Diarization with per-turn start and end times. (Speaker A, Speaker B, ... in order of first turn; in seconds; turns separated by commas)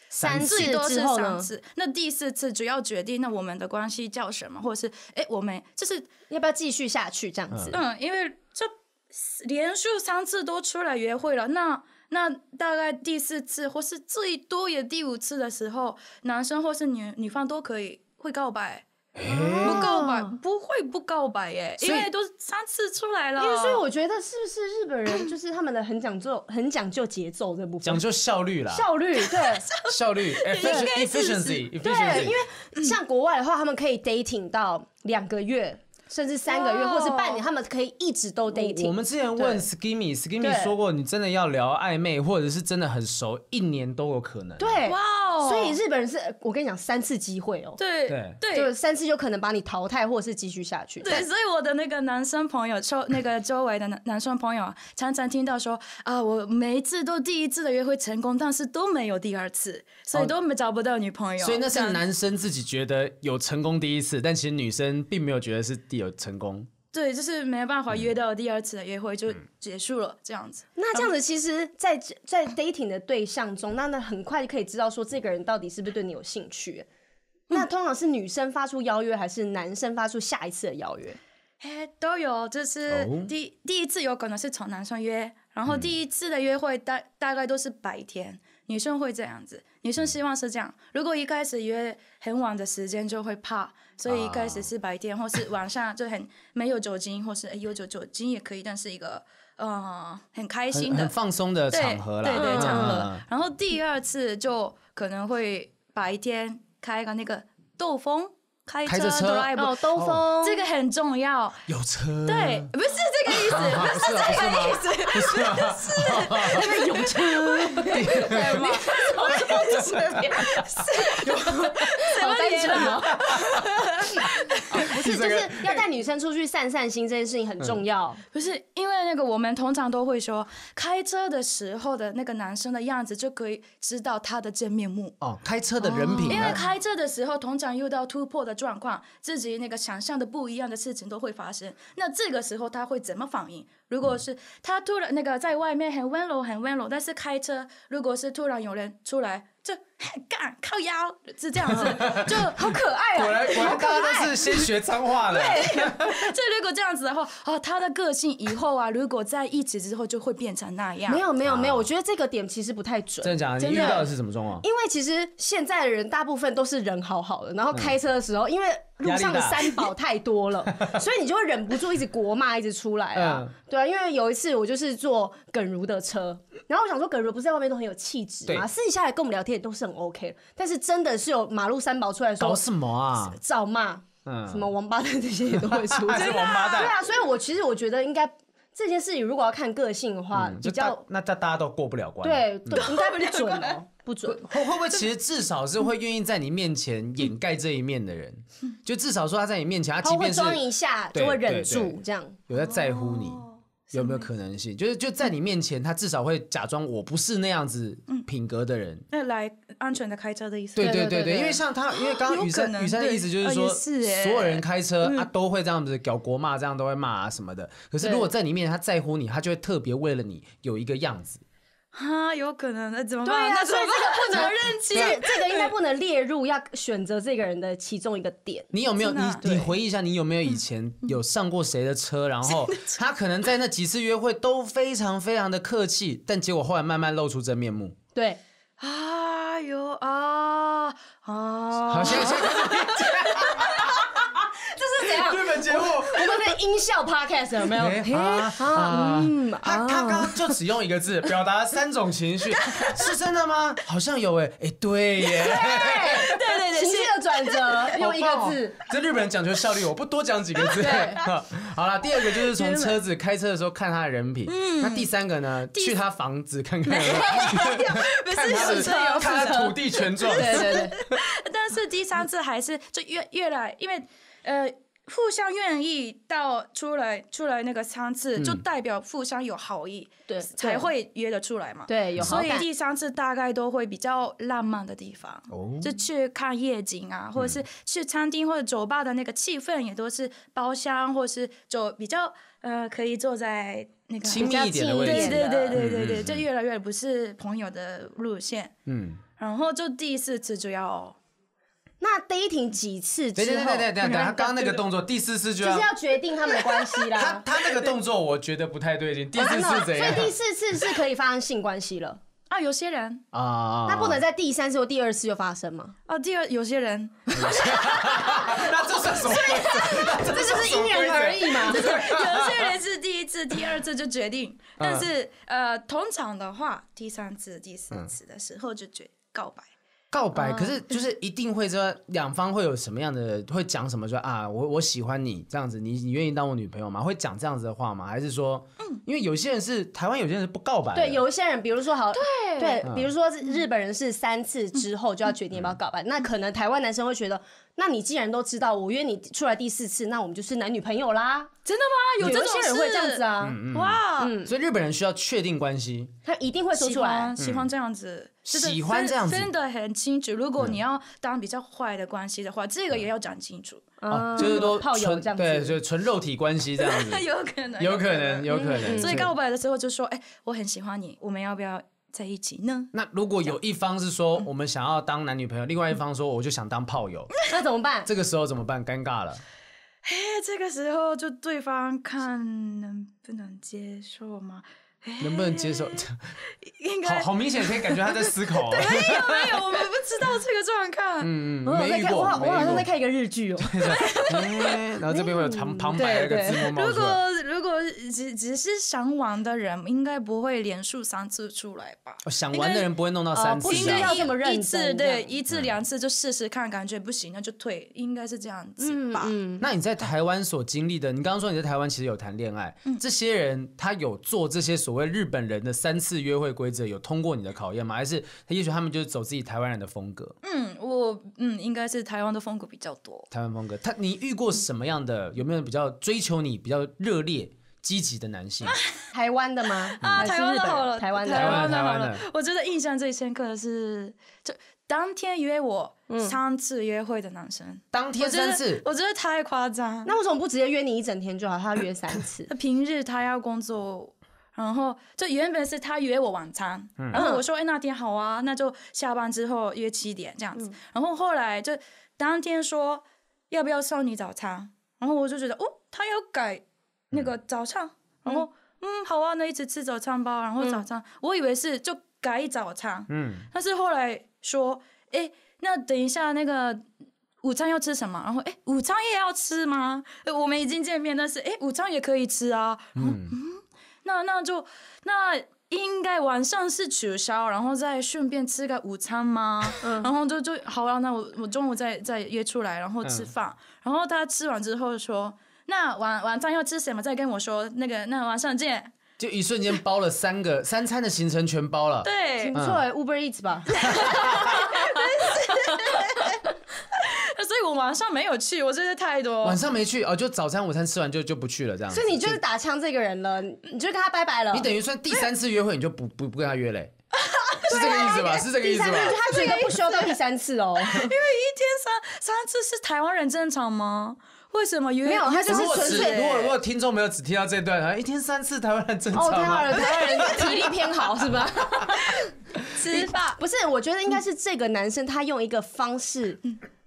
Speaker A: 0.1-1.5, Speaker B: 0.2-0.7, Speaker C: 0.3-6.1, Speaker A: 6.3-7.8, Speaker B: 7.5-7.8, Speaker C: 7.7-18.9, Speaker B: 19.2-19.9, Speaker A: 19.2-20.4, Speaker C: 19.6-23.8, Speaker B: 21.8-22.1, Speaker A: 23.4-28.0, Speaker B: 27.8-28.9, Speaker A: 28.7-29.7, Speaker C: 29.2-33.0, Speaker B: 29.9-32.4, Speaker A: 30.6-30.9, Speaker A: 31.8-39.6, Speaker C: 36.5-37.4, Speaker B: 38.5-44.8, Speaker A: 40.4-40.7, Speaker A: 44.6-47.8, Speaker C: 44.8-45.8, Speaker C: 47.8-48.7, Speaker B: 48.1-48.4, Speaker A: 48.5-51.3, Speaker C: 51.0-62.0, Speaker B: 61.4-66.7, Speaker C: 66.9-71.1, Speaker A: 70.8-76.9, Speaker A: 77.5-81.2, Speaker C: 81.6-101.1, Speaker B: 82.9-83.3, Speaker B: 94.1-94.7, Speaker B: 100.7-103.2, Speaker C: 101.7-111.7, Speaker A: 102.3-103.1, Speaker B: 108.9-110.3, Speaker A: 109.5-110.6, Speaker B: 111.7-112.7, Speaker C: 112.2-124.9, Speaker B: 113.3-116.7, Speaker A: 116.4-123.2, Speaker B: 117.9-120.7, Speaker B: 122.8-123.7, Speaker B: 124.7-125.8, Speaker A: 124.7-128.2, Speaker C: 128.3-135.2, Speaker B: 135.2-136.6, Speaker C: 135.8-152.8, Speaker A: 136.1-136.5, Speaker B: 151.7-152.5, Speaker A: 152.0-154.7, Speaker B: 153.2-156.3, Speaker C: 155.3-161.2, Speaker A: 155.3-155.6, Speaker A: 161.1-164.1, Speaker B: 161.4-161.9, Speaker B: 163.2-164.6, Speaker C: 163.6-164.1, Speaker A: 164.6-182.6, Speaker B: 169.0-169.9, Speaker B: 173.1-173.5, Speaker B: 182.4-183.4, Speaker A: 183.2-191.0, Speaker B: 184.2-184.7, Speaker B: 185.5-187.0, Speaker C: 186.1-186.9, Speaker B: 190.3-192.9, Speaker A: 192.2-194.5, Speaker C: 192.7-193.8, Speaker B: 194.2-209.1, Speaker A: 200.0-202.4, Speaker C: 202.5-204.3, Speaker C: 209.1-211.1, Speaker A: 210.8-211.6, Speaker B: 210.8-221.4, Speaker C: 211.9-215.3, Speaker A: 218.0-218.3, Speaker C: 221.9-225.7, Speaker A: 223.2-228.7, Speaker B: 224.3-225.2, Speaker B: 228.7-238.0, Speaker C: 229.0-229.5, Speaker A: 229.4-229.7, Speaker C: 232.5-233.0, Speaker A: 238.2-238.4, Speaker C: 238.8-244.0, Speaker A: 241.8-242.5, Speaker B: 241.9-244.1, Speaker A: 243.6-250.6, Speaker B: 245.0-246.4, Speaker B: 247.7-256.4, Speaker A: 255.4-258.8, Speaker C: 255.5-257.9, Speaker B: 257.9-271.2, Speaker A: 260.8-261.3, Speaker C: 262.5-263.0, Speaker C: 264.5-265.1, Speaker C: 266.9-298.7, Speaker A: 268.5-270.9, Speaker B: 278.4-278.6, Speaker A: 280.3-280.9, Speaker A: 281.9-282.7, Speaker B: 285.5-286.0, Speaker B: 287.4-287.6, Speaker B: 294.2-296.4, Speaker A: 294.3-295.8, Speaker B: 298.9-299.2, Speaker C: 299.4-301.2, Speaker A: 302.0-304.4, Speaker B: 303.4-305.9, Speaker C: 304.0-304.8, Speaker A: 305.6-307.5, Speaker B: 307.1-310.3, Speaker A: 309.4-312.2, Speaker C: 312.5-313.2, Speaker B: 313.3-314.2, Speaker A: 313.9-315.9, Speaker C: 316.1-320.2, Speaker B: 317.3-322.8, Speaker A: 319.8-321.9, Speaker C: 321.6-329.7, Speaker B: 324.8-325.1, Speaker B: 330.1-341.2, Speaker C: 330.4-330.8, Speaker A: 340.9-351.5, Speaker C: 342.1-342.9, Speaker B: 342.8-343.1, Speaker C: 351.7-354.4, Speaker A: 352.2-353.6, Speaker B: 353.4-356.1, Speaker A: 354.2-354.5, Speaker A: 356.2-357.3, Speaker C: 356.8-364.6, Speaker B: 357.4-357.7, Speaker B: 358.5-359.5, Speaker A: 364.0-365.8, Speaker B: 364.1-367.2, Speaker C: 366.8-372.9, Speaker B: 367.8-369.3, Speaker A: 368.6-369.3, Speaker B: 372.9-377.3, Speaker A: 377.5-378.1, Speaker B: 378.1-379.4, Speaker C: 380.0-391.3, Speaker B: 385.2-386.3, Speaker B: 387.0-389.6, Speaker B: 391.2-392.9, Speaker A: 391.6-394.2, Speaker C: 392.5-392.8, Speaker B: 393.6-397.2, Speaker C: 393.9-394.8, Speaker A: 395.1-396.7, Speaker C: 396.0-402.9, Speaker B: 402.2-404.2, Speaker A: 403.3-405.3, Speaker C: 403.6-409.4, Speaker B: 405.5-405.8, Speaker A: 408.8-409.7, Speaker B: 409.6-420.4, Speaker C: 420.4-423.3, Speaker B: 423.3-428.8, Speaker C: 428.6-429.0, Speaker A: 429.1-431.7, Speaker C: 429.9-440.1, Speaker B: 430.0-430.3, Speaker B: 431.3-432.2, Speaker A: 436.1-436.4, Speaker B: 437.9-438.8, Speaker A: 440.1-442.5, Speaker C: 442.5-466.9, Speaker B: 447.0-447.2, Speaker A: 447.1-447.4, Speaker B: 463.1-463.5, Speaker C: 467.4-488.9, Speaker B: 473.0-473.4, Speaker A: 479.8-480.1, Speaker B: 483.0-483.3, Speaker B: 489.2-492.8, Speaker C: 492.0-492.6, Speaker A: 492.4-495.3, Speaker C: 493.8-499.6, Speaker B: 493.8-494.6, Speaker B: 499.4-502.4, Speaker A: 501.9-504.7, Speaker B: 504.5-506.9, Speaker C: 507.2-508.3, Speaker B: 507.7-509.2, Speaker A: 507.7-511.1, Speaker C: 509.1-510.2, Speaker C: 510.8-516.5, Speaker A: 515.0-516.5, Speaker B: 515.5-520.8, Speaker A: 519.1-522.3, Speaker C: 520.2-520.5, Speaker C: 522.0-523.4, Speaker A: 522.9-526.4